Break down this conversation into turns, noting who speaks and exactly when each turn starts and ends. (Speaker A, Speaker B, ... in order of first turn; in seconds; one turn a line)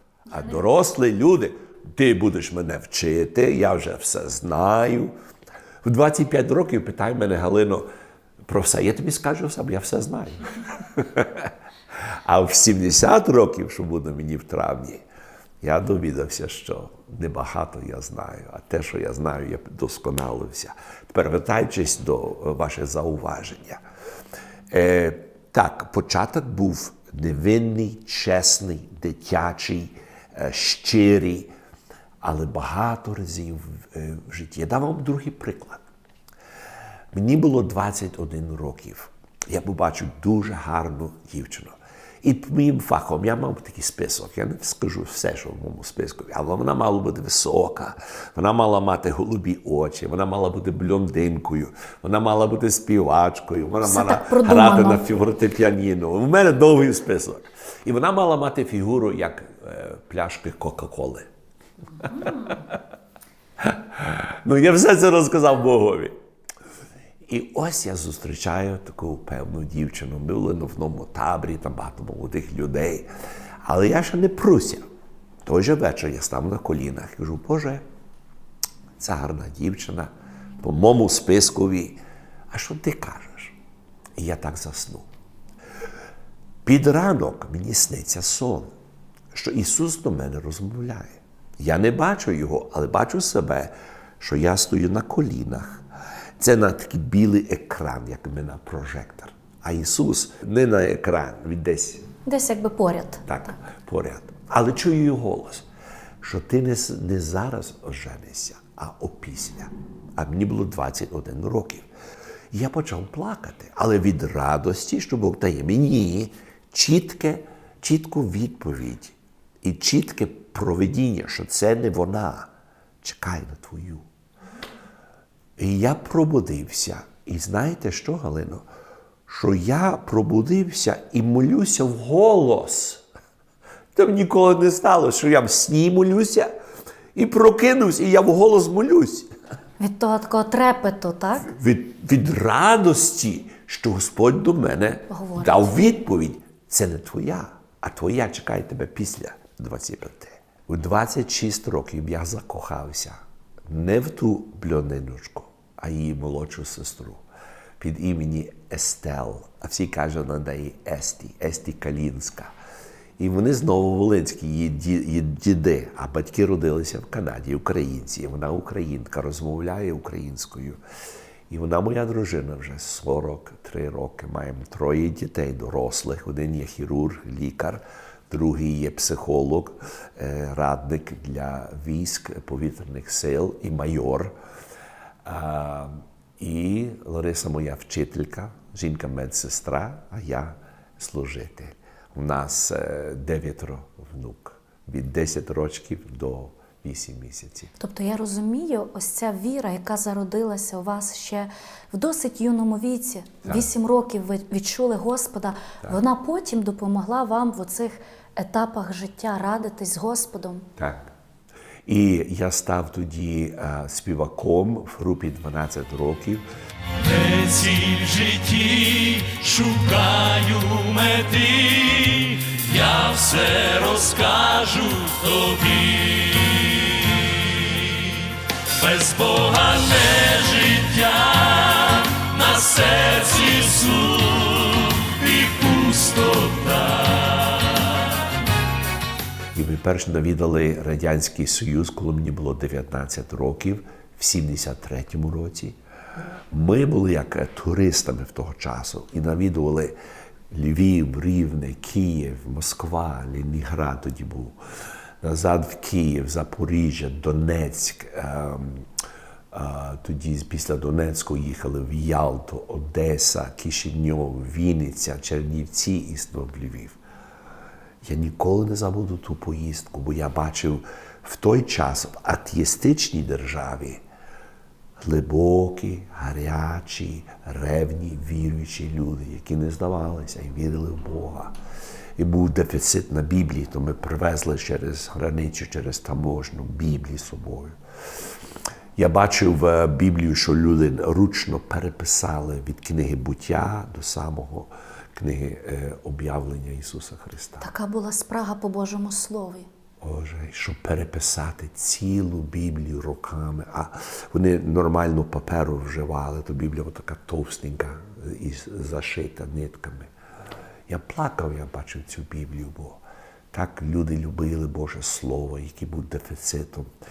Speaker A: 0.3-5.1
Speaker A: 5.8-7.9
Speaker A: 8.5-15.0
Speaker A: 15.6-23.8
Speaker A: 24.7-31.5
Speaker A: 32.2-35.8
Speaker A: 37.1-61.3
Speaker B: 53.8-55.0
Speaker A: 62.2-62.8
Speaker A: 63.6-66.2
Speaker A: 67.2-73.1
Speaker A: 73.6-74.9
Speaker A: 75.4-77.8
Speaker A: 79.0-80.1
Speaker A: 80.6-83.6
Speaker A: 84.2-85.1
Speaker A: 86.6-88.7
Speaker A: 89.3-95.8
Speaker A: 96.4-102.1
Speaker B: 102.3-103.2
Speaker A: 103.3-105.7
Speaker A: 106.2-111.9
Speaker A: 112.5-122.5
Speaker A: 123.0-124.1
Speaker A: 125.6-128.7
Speaker A: 129.3-133.1
Speaker A: 133.9-136.5
Speaker A: 137.2-139.3
Speaker B: 139.8-141.5
Speaker A: 141.5-157.2
Speaker B: 145.1-145.7
Speaker A: 157.8-162.5
Speaker A: 163.2-170.8
Speaker A: 171.5-184.4
Speaker A: 185.2-197.7
Speaker B: 197.8-210.7
Speaker A: 203.4-203.7
Speaker A: 210.8-211.1
Speaker A: 211.8-216.4
Speaker C: 217.0-238.2
Speaker A: 239.5-245.8
Speaker A: 246.5-249.9
Speaker A: 250.5-254.6
Speaker A: 255.2-258.9
Speaker A: 259.5-267.0
Speaker A: 268.0-274.0
Speaker A: 275.0-281.5
Speaker A: 282.2-287.8
Speaker A: 289.0-297.7
Speaker B: 297.6-299.7
Speaker A: 300.0-310.1
Speaker A: 310.9-313.0
Speaker A: 313.5-316.9